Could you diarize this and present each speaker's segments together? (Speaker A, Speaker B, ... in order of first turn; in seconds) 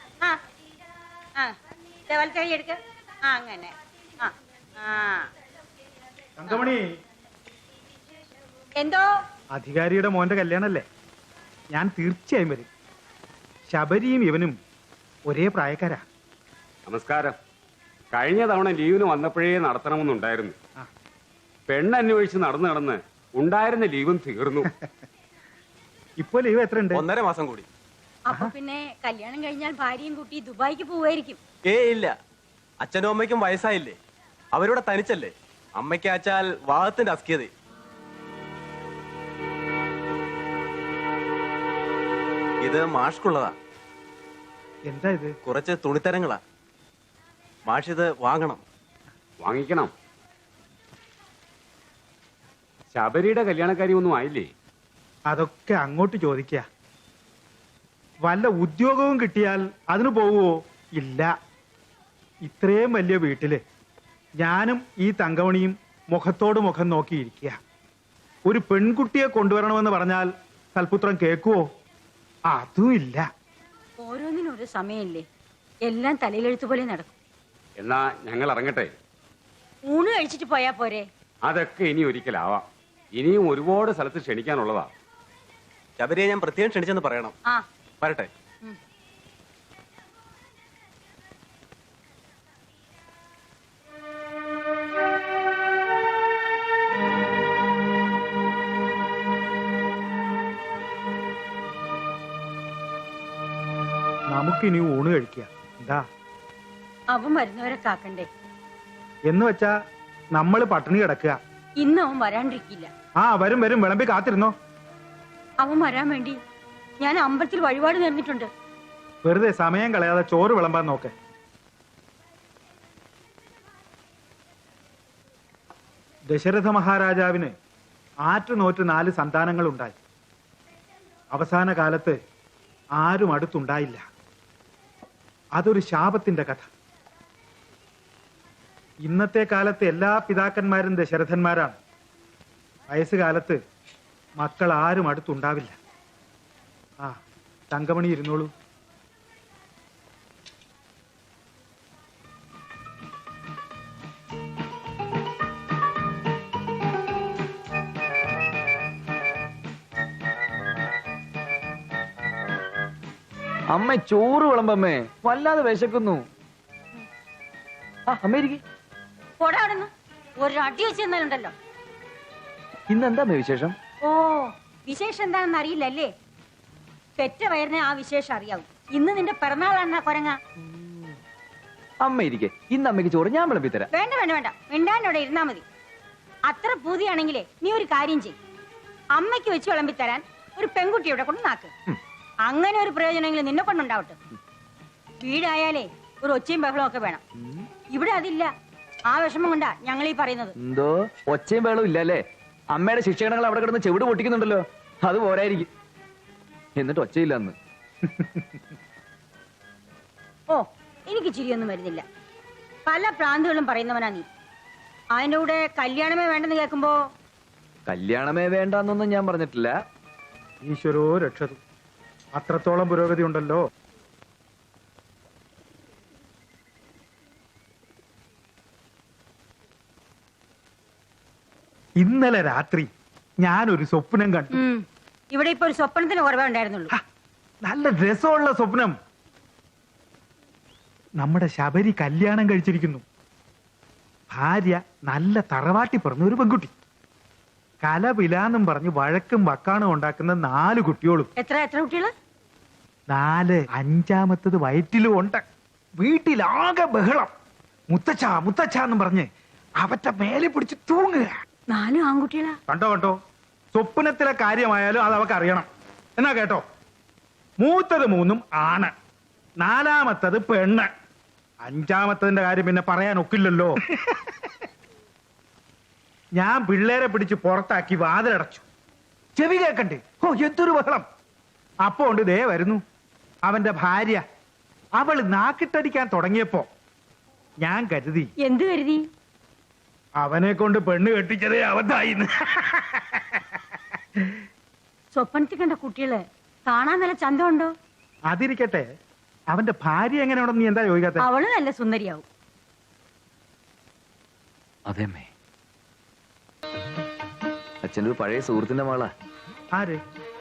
Speaker A: 2.1-5.3, 8.8-9.1, 28.3-31.4, 74.0-75.2, 75.9-77.1, 79.9-81.1, 107.1-108.3, 111.8-112.9, 115.6-116.4, 117.0-118.5, 169.4-171.5, 174.0-176.1, 177.2-180.4, 183.9-185.6, 186.5-188.4, 189.2-191.7, 192.5-194.2, 195.2-197.2, 197.9-198.5, 199.1-200.5, 210.5-212.0, 212.9-214.3, 215.2-217.0, 234.5-236.9, 251.4-252.1, 261.7-262.6, 288.4-289.0, 295.1-297.7, 301.2-302.2
Speaker B: 6.4-6.8, 9.6-10.8, 11.8-12.7, 13.7-14.6, 15.3-16.0, 26.2-27.1, 44.9-45.4, 55.3-56.6, 58.3-61.3, 62.5-63.6, 64.4-67.6, 68.5-71.6, 72.5-73.3, 104.3-106.0, 109.3-109.7, 110.4-111.4, 113.2-114.5, 119.2-121.1, 126.3-127.5, 128.3-130.0, 131.3-132.2, 133.0-134.0, 135.6-136.7, 139.1-141.8, 142.9-143.6, 144.4-145.8, 147.7-148.5, 220.6-221.6, 222.4-223.6, 232.0-232.9, 233.4-234.6, 237.7-238.9, 241.2-243.0, 244.3-246.7, 247.8-251.3, 253.1-255.4, 256.0-257.3, 257.9-259.3, 259.8-261.3, 262.7-263.2, 263.7-265.7, 266.2-266.6, 267.6-268.9, 269.6-270.9, 271.7-273.7, 276.4-278.6, 279.4-281.1, 281.9-282.8, 283.5-284.2, 285.0-286.7, 287.6-288.3, 290.2-293.4, 298.3-298.9, 299.5-301.2
Speaker C: 16.9-17.3, 18.1-20.5, 21.7-24.7, 49.4-49.9, 52.9-54.5, 77.8-78.9, 81.5-82.6, 83.2-84.9
Speaker D: 27.0-27.6, 31.7-32.1, 32.8-33.9, 34.5-37.5, 42.6-43.5, 45.5-46.4, 47.7-48.6, 86.0-87.3, 88.0-88.3
Speaker E: 163.7-166.2, 168.1-168.6, 172.9-173.8, 180.6-181.2, 182.0-183.9, 197.4-197.7, 200.6-202.2, 202.7-205.7, 206.8-207.6, 217.9-219.7, 304.9-305.3, 307.8-309.1